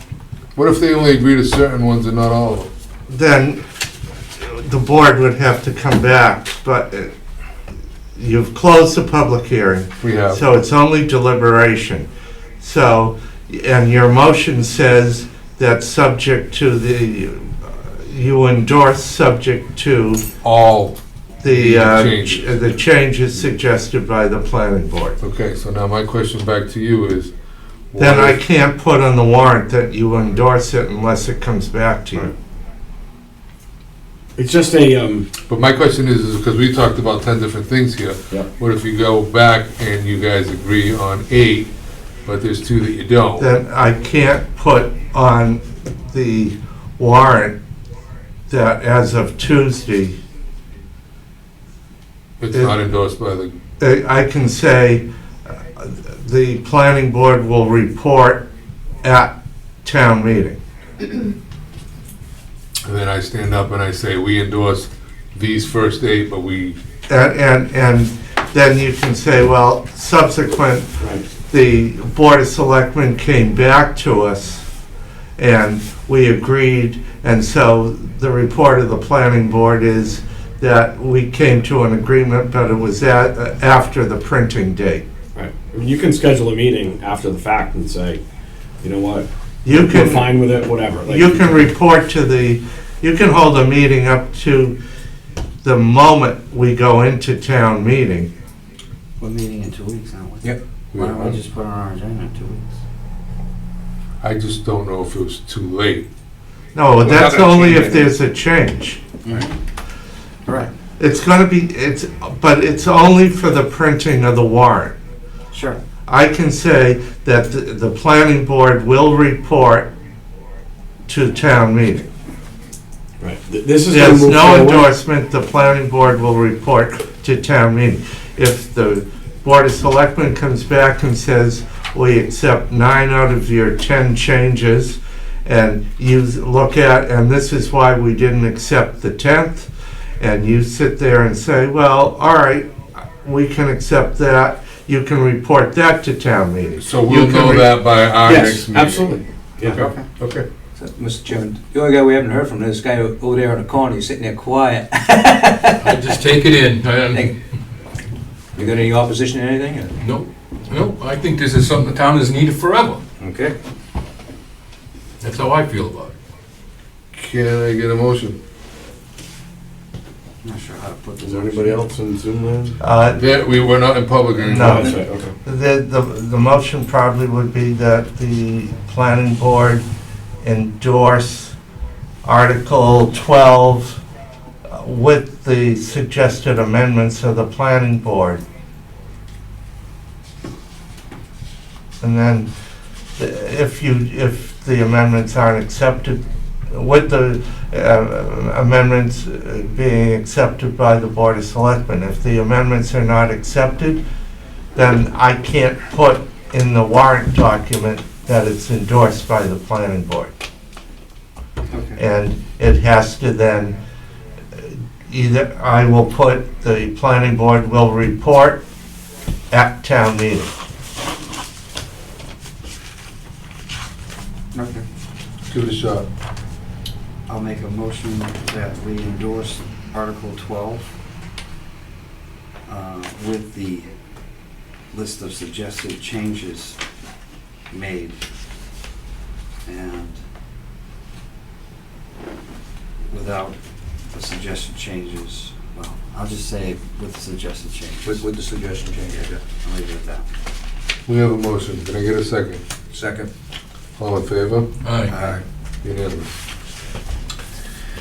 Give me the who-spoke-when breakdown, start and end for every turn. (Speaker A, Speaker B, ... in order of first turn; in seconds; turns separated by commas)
Speaker A: 0.6-2.7, Speaker B: 3.1-3.6, Speaker B: 4.4-7.1, Speaker B: 8.2-12.1, Speaker A: 10.0-10.4, Speaker B: 12.6-20.3, Speaker A: 20.4-22.6, Speaker B: 21.4-25.2, Speaker A: 25.2-27.3, Speaker A: 27.9-28.4, Speaker B: 28.0-32.3, Speaker C: 34.4-35.3, Speaker A: 35.5-41.7, Speaker A: 42.2-43.5, Speaker B: 43.4-47.6, Speaker B: 48.5-50.2, Speaker A: 52.4-53.5, Speaker B: 53.8-55.0, Speaker B: 55.8-58.5, Speaker B: 59.0-59.3, Speaker B: 59.8-60.6, Speaker A: 62.9-66.8, Speaker B: 67.1-70.9, Speaker C: 71.0-71.3, Speaker B: 71.5-74.7, Speaker B: 75.4-85.0, Speaker C: 85.3-88.2, Speaker C: 88.8-91.6, Speaker B: 89.7-90.3, Speaker B: 91.1-94.8, Speaker B: 95.6-98.3, Speaker D: 99.2-102.8, Speaker A: 100.9-101.4, Speaker A: 104.2-106.1, Speaker B: 106.8-109.0, Speaker E: 107.0-108.1, Speaker D: 109.2-109.5, Speaker D: 110.5-110.7, Speaker B: 111.0-115.0, Speaker D: 115.5-115.8, Speaker B: 116.1-119.9, Speaker B: 121.1-122.1, Speaker C: 123.2-124.9, Speaker B: 123.9-139.7, Speaker B: 140.2-147.8, Speaker A: 146.8-149.2, Speaker C: 148.2-149.9, Speaker A: 149.7-150.4, Speaker D: 149.8-150.1, Speaker E: 150.8-156.2, Speaker F: 155.8-157.3, Speaker E: 158.6-159.9, Speaker F: 160.0-163.0, Speaker E: 163.2-163.6, Speaker F: 165.2-166.2, Speaker A: 167.1-168.4, Speaker D: 170.4-171.8, Speaker C: 171.2-172.8, Speaker B: 172.8-173.4, Speaker A: 173.2-174.9, Speaker B: 174.5-179.8, Speaker C: 174.5-175.3, Speaker B: 180.4-181.6, Speaker B: 182.2-184.0, Speaker B: 184.7-188.4, Speaker B: 192.0-192.5, Speaker B: 193.2-204.0, Speaker B: 204.8-210.3, Speaker D: 211.7-212.0, Speaker B: 212.0-213.8, Speaker B: 214.6-218.6, Speaker B: 219.5-220.5, Speaker D: 224.5-224.8, Speaker A: 225.5-226.1, Speaker D: 227.3-230.9, Speaker D: 232.7-233.9, Speaker D: 234.9-236.8, Speaker D: 237.7-238.2, Speaker D: 239.7-240.2, Speaker D: 243.1-243.6, Speaker D: 244.1-248.2, Speaker E: 248.0-249.4, Speaker D: 249.6-250.2, Speaker A: 251.1-252.6, Speaker E: 252.9-253.3, Speaker A: 254.0-254.7, Speaker F: 254.8-255.1, Speaker E: 255.1-255.4, Speaker D: 255.1-255.4, Speaker A: 255.8-256.4